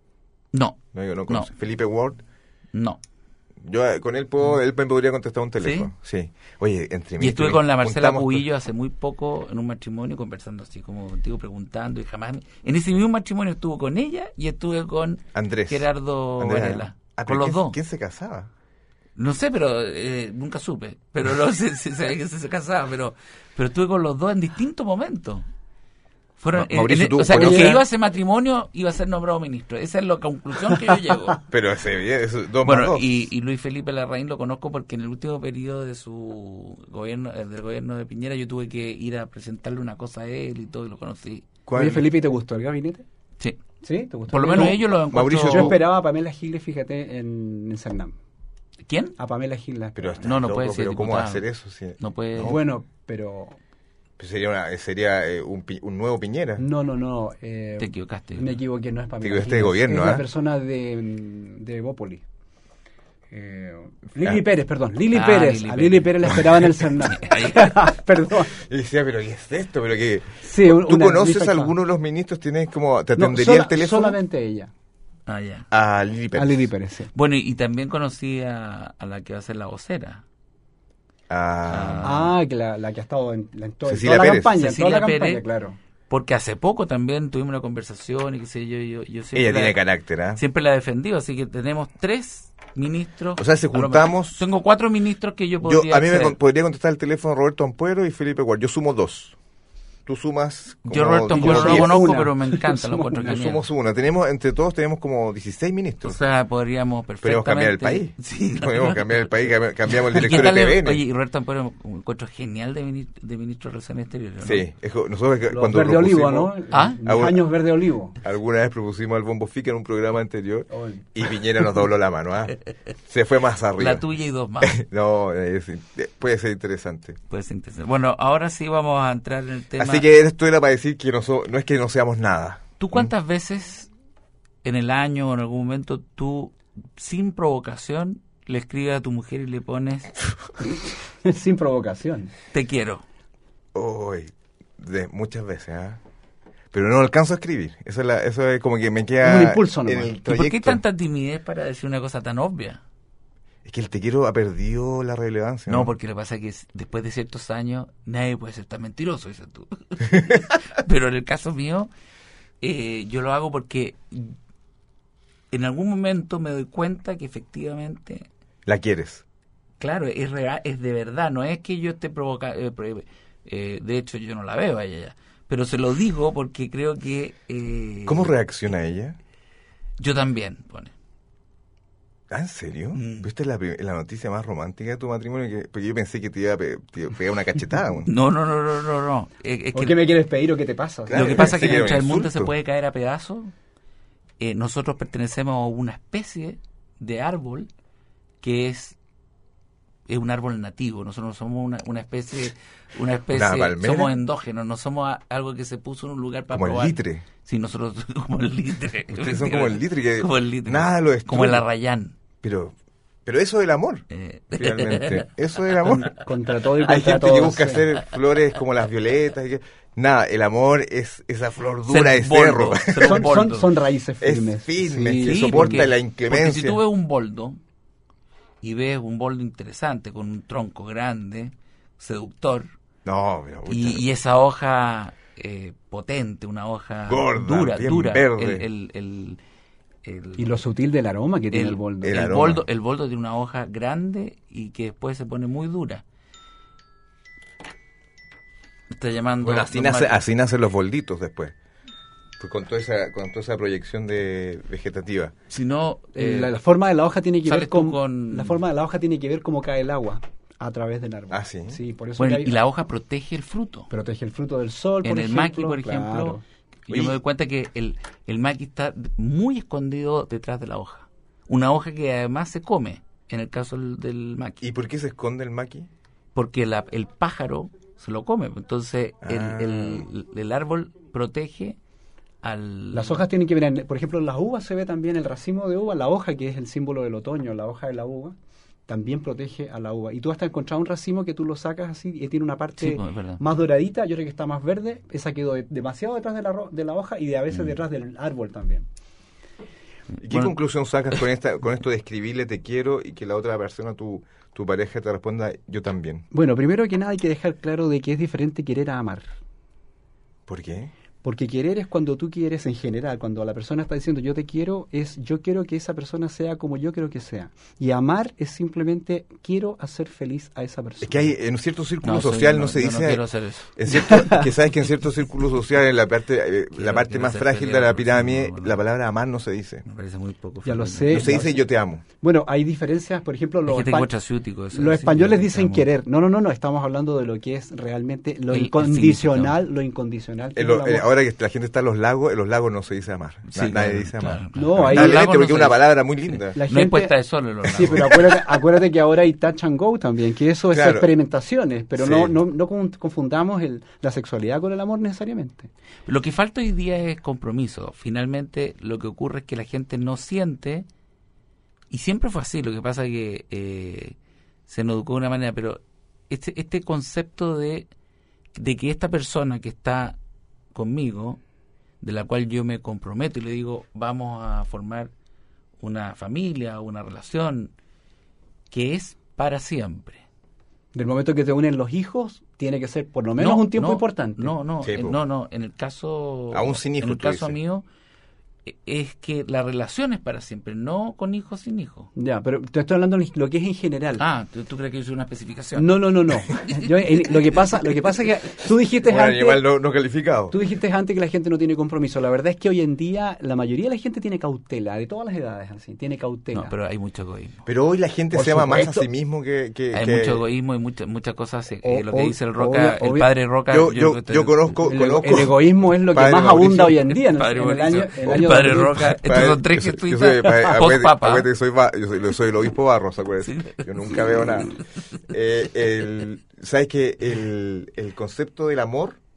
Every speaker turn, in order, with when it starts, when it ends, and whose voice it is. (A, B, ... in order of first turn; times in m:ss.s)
0:00.5-0:01.5 A
0:00.9-0:02.2 B
0:02.7-0:03.0 A
0:03.6-0:08.4 B
0:05.6-0:05.9 A
0:07.2-0:17.8 A
0:15.3-0:15.9 B
0:16.4-0:18.5 B
0:19.2-0:25.5 A
0:26.4-0:31.4 A
0:26.5-0:27.8 B
0:27.3-0:27.8 C
0:31.5-0:33.1 B
0:32.6-0:41.5 A
0:41.7-0:42.1 B
0:41.7-0:43.0 C
0:43.8-0:44.8 C
0:44.3-0:45.8 A
0:44.5-0:45.8 B
0:45.4-0:48.1 C
0:48.9-0:49.1 A
0:49.2-0:50.2 C
0:50.0-0:52.6 B
0:50.2-0:51.4 A
0:52.0-0:52.6 A
0:52.4-0:53.6 C
0:54.2-0:56.6 B
0:56.6-1:02.2 C
0:57.8-0:58.6 A
0:59.2-1:00.2 B
1:03.3-1:08.5 C
1:05.1-1:06.4 A
1:07.0-1:07.9 A
1:08.5-1:14.2 B
1:10.4-1:11.7 C
1:13.2-1:14.7 C
1:15.3-1:15.7 A
1:15.7-1:16.7 B
1:16.3-1:17.1 C
1:17.1-1:20.2 A
1:21.3-1:22.2 B
1:21.7-1:22.3 A
1:22.0-1:25.8 C
1:23.9-1:24.6 B
1:24.6-1:25.4 A
1:26.1-1:29.8 A
1:29.3-1:30.4 B
1:30.3-1:36.4 A
1:33.4-1:34.4 B
1:35.6-1:39.4 B
1:40.0-1:42.0 B
1:40.9-1:43.6 A
1:41.3-1:43.4 C
1:43.2-1:46.2 B
1:46.0-1:49.2 A
1:47.2-1:51.0 B
1:49.9-1:54.7 A
1:54.4-1:56.5 B
1:55.5-1:58.2 C
1:56.7-1:57.0 A
1:57.0-1:57.4 B
1:58.2-2:04.0 B
2:00.7-2:01.0 C
2:03.8-2:04.8 A
2:04.6-2:07.2 B
2:07.3-2:10.0 A
2:09.8-2:13.1 B
2:12.8-2:13.9 A
2:14.6-2:20.2 A
2:21.2-2:22.3 C
2:22.5-2:23.0 A
2:23.7-2:26.0 B
2:26.7-2:30.8 B
2:29.2-2:30.1 C
2:30.3-2:32.8 A
2:33.6-2:35.9 B
2:35.7-2:41.9 A
2:42.6-2:44.4 A
2:45.5-2:48.3 A
2:48.6-2:49.2 B
2:49.8-2:58.3 A
2:58.1-2:59.2 B
3:00.0-3:00.9 A
3:02.3-3:08.1 B
3:02.9-3:03.3 A
3:08.0-3:10.0 A
3:09.7-3:11.7 C
3:11.1-3:12.5 B
3:11.1-3:13.5 A
3:14.4-3:17.7 A
3:18.4-3:19.0 A
3:20.1-3:32.1 A
3:23.3-3:24.1 B
3:26.5-3:27.2 B
3:29.1-3:31.6 B
3:32.4-3:32.7 B
3:33.2-3:34.0 B
3:34.1-3:35.2 A
3:34.6-3:36.1 B
3:36.1-3:37.9 C
3:36.8-3:43.4 B
3:41.9-3:43.7 A
3:43.0-3:45.9 C
3:44.2-3:46.8 B
3:45.2-3:47.6 A
3:48.6-3:52.7 A
3:53.0-3:54.0 B
3:53.7-3:59.4 A
3:57.1-3:58.6 B
4:00.0-4:00.6 A
4:00.4-4:02.2 C
4:01.5-4:06.0 A
4:02.0-4:02.6 B
4:08.9-4:10.2 A
4:09.4-4:11.5 B
4:12.4-4:15.3 B
4:15.5-4:16.5 A
4:16.1-4:22.6 C
4:17.4-4:18.6 A
4:21.3-4:21.8 B
4:22.2-4:23.9 A
4:23.9-4:26.4 C
4:25.0-4:34.6 A
4:26.9-4:27.2 B
4:34.6-4:35.9 B
4:36.3-4:41.8 A
4:39.2-4:40.1 B
4:42.4-4:43.2 A
4:42.9-4:48.3 C
4:48.9-4:58.9 C
4:52.8-4:53.4 A
5:00.2-5:00.5 A
5:00.2-5:06.2 B
5:06.3-5:09.2 C
5:10.5-5:10.9 B
5:11.2-5:21.3 C
5:21.0-5:23.2 B
5:22.0-5:23.7 A
5:23.7-5:29.8 B
5:24.0-5:24.5 C
5:26.7-5:28.8 A
5:29.8-5:31.4 A
5:30.6-5:31.6 C
5:31.1-5:32.0 B
5:32.2-5:34.1 C
5:33.7-5:35.8 A
5:34.7-5:41.0 C
5:38.5-5:39.6 A
5:40.6-5:46.6 B
5:43.5-5:48.2 A
5:44.5-5:45.3 C
5:46.5-5:55.7 C
5:47.8-5:48.2 B
5:50.7-5:51.1 B
5:52.0-5:52.4 B
5:56.1-6:00.9 A
6:01.9-6:04.2 A
6:04.7-6:07.9 A
6:08.5-6:10.2 A
6:10.7-6:11.4 A
6:12.0-6:15.1 A
6:15.8-6:17.7 A
6:18.7-6:20.2 A
6:20.9-6:24.5 C
6:23.4-6:27.8 A
6:24.8-6:25.2 B
6:26.5-6:27.6 B
6:28.6-6:32.1 A
6:32.2-6:34.2 C
6:34.2-6:35.9 A
6:35.8-6:39.6 C
6:39.0-6:40.5 B
6:40.5-6:46.7 C
6:46.5-6:47.6 A
6:47.6-6:50.4 B
6:48.3-6:49.1 C
6:49.9-6:54.8 A
6:51.8-6:53.3 C
6:53.7-6:57.0 B
6:54.8-6:59.2 C
6:57.2-7:01.5 A
6:59.1-7:09.2 B
7:03.5-7:04.2 A